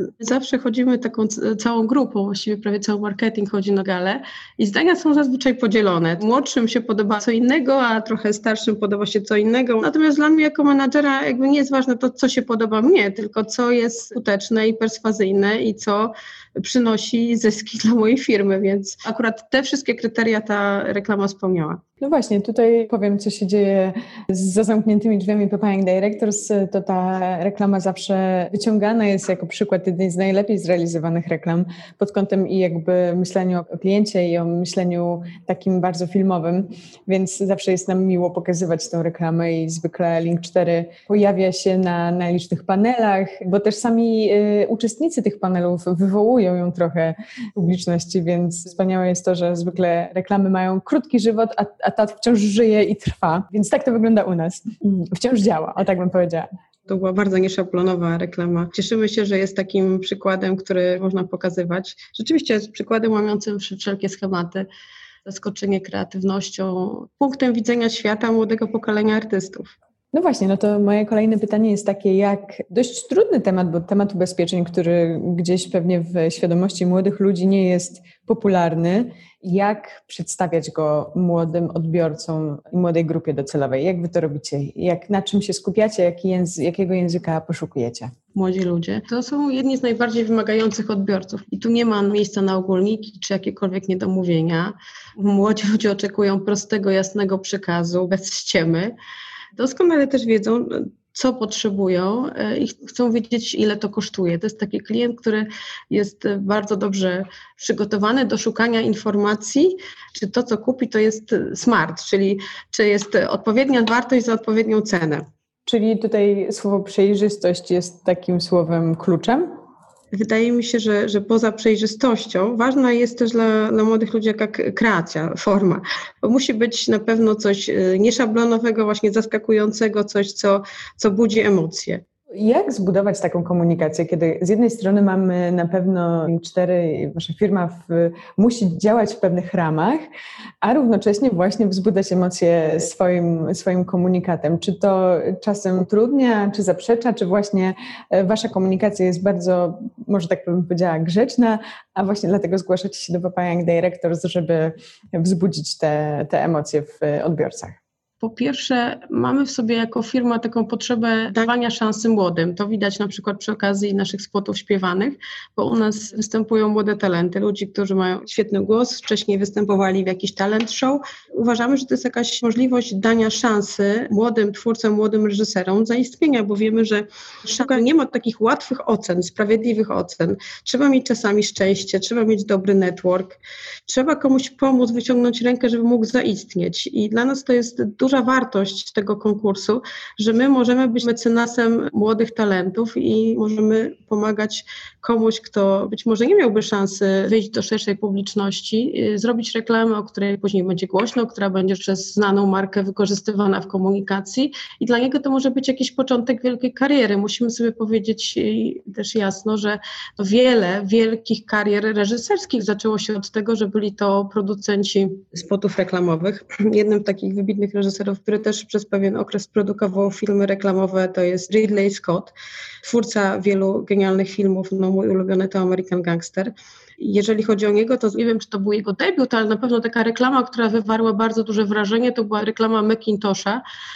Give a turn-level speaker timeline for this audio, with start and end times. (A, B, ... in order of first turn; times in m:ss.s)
0:00.2-0:21.8 A
0:22.0-0:56.5 B
0:56.9-1:04.6 A
1:05.2-1:09.7 A
1:10.1-1:28.1 B
1:28.3-1:38.9 A
1:39.6-1:55.2 A
1:55.6-1:59.5 B
2:00.1-2:12.0 A
2:12.4-2:20.0 B
2:20.6-2:37.8 B
2:38.2-3:53.6 A